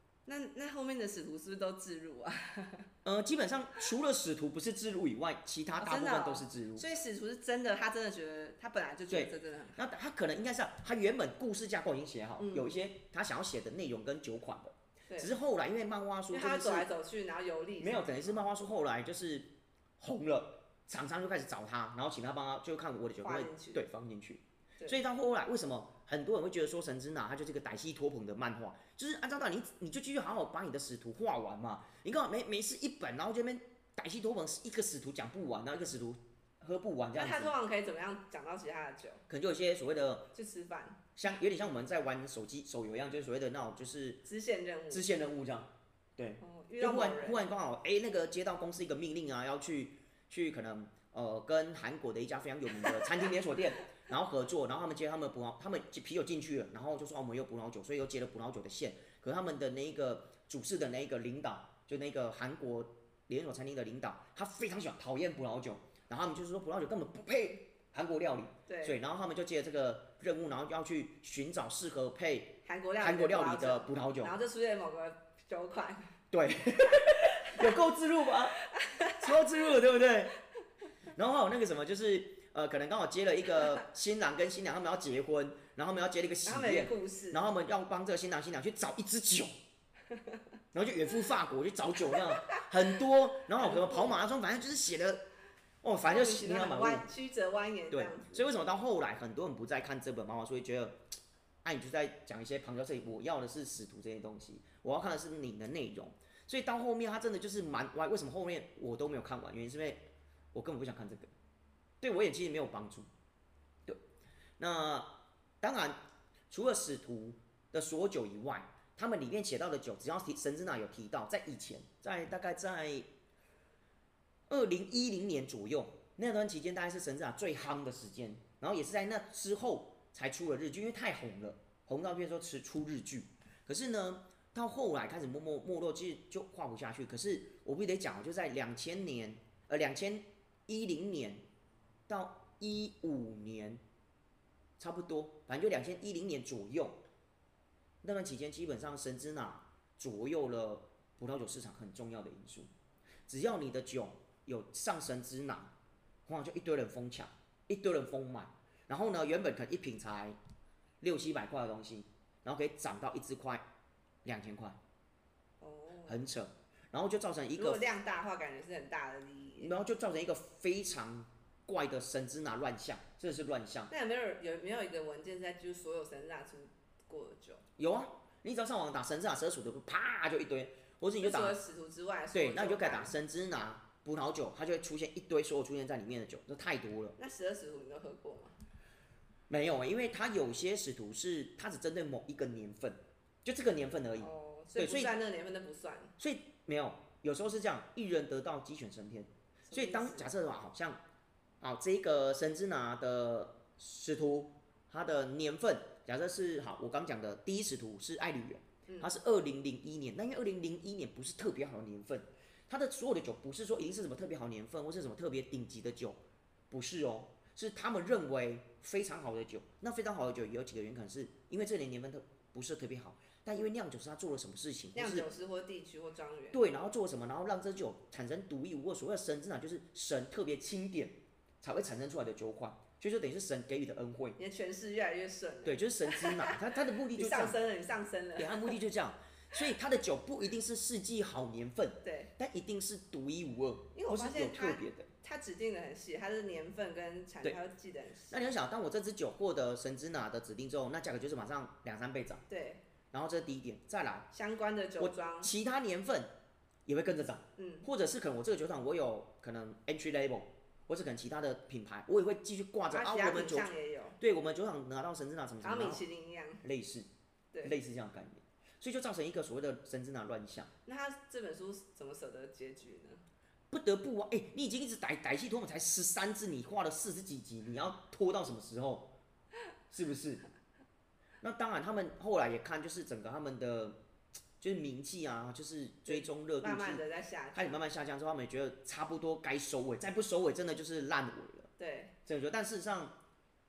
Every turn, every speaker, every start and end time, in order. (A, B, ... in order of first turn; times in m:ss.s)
0:00.2-0:02.9 A
0:03.0-0:06.9 B
0:05.8-0:09.8 A
0:09.1-0:16.9 B
0:12.4-0:12.7 A
0:16.3-0:18.4 A
0:17.8-0:37.5 B
0:23.2-0:23.8 A
0:37.1-0:39.2 A
0:39.3-0:40.3 B
0:40.3-0:41.0 A
0:41.2-0:44.2 B
0:44.2-0:45.0 A
0:44.9-1:14.4 B
0:46.4-0:47.4 A
1:08.7-1:09.0 A
1:12.6-1:16.1 A
1:16.3-1:20.4 B
1:17.1-1:17.6 A
1:18.6-1:19.3 A
1:21.1-1:29.5 B
1:26.4-1:27.4 A
1:30.1-1:30.4 A
1:30.7-1:35.2 B
1:33.6-1:34.1 A
1:35.8-1:37.1 B
1:36.0-1:38.5 A
1:37.9-1:41.0 B
1:41.6-1:51.3 B
1:52.0-1:53.1 B
1:54.6-2:03.0 B
2:04.5-2:21.4 B
2:22.1-2:23.8 B
2:24.8-2:27.0 B
2:28.0-2:32.7 B
2:33.3-2:35.7 B
2:36.3-2:40.4 B
2:41.0-2:43.6 B
2:44.2-2:44.8 B
2:45.6-2:46.2 A
2:46.1-2:47.9 B
2:47.6-2:49.7 A
2:49.6-2:53.9 B
2:53.9-2:57.6 A
2:57.8-3:01.6 B
3:01.2-3:03.1 A
3:02.3-3:07.2 B
3:07.2-3:08.6 A
3:09.5-3:15.1 B
3:14.2-3:16.1 A
3:16.2-3:21.0 B
3:19.7-3:20.3 A
3:21.6-3:36.2 B
3:36.7-3:45.2 B
3:44.9-3:46.6 A
3:46.5-3:54.4 B
3:54.4-3:58.8 A
3:55.6-3:57.6 B
3:58.4-4:05.1 B
4:02.0-4:02.3 A
4:03.9-4:08.5 A
4:08.3-4:12.4 B
4:12.5-4:12.8 A
4:13.1-4:14.3 B
4:14.3-4:15.5 A
4:15.0-4:16.3 B
4:16.9-4:26.0 B
4:17.6-4:17.9 A
4:22.9-4:24.2 A
4:25.6-4:26.6 A
4:26.6-4:27.1 B
4:27.6-4:30.7 B
4:30.9-4:33.2 A
4:33.7-4:39.1 B
4:39.9-4:40.4 B
4:41.4-4:44.0 B
4:44.6-4:51.7 B
4:46.1-4:47.8 A
4:51.8-4:52.1 A
4:52.2-4:53.2 B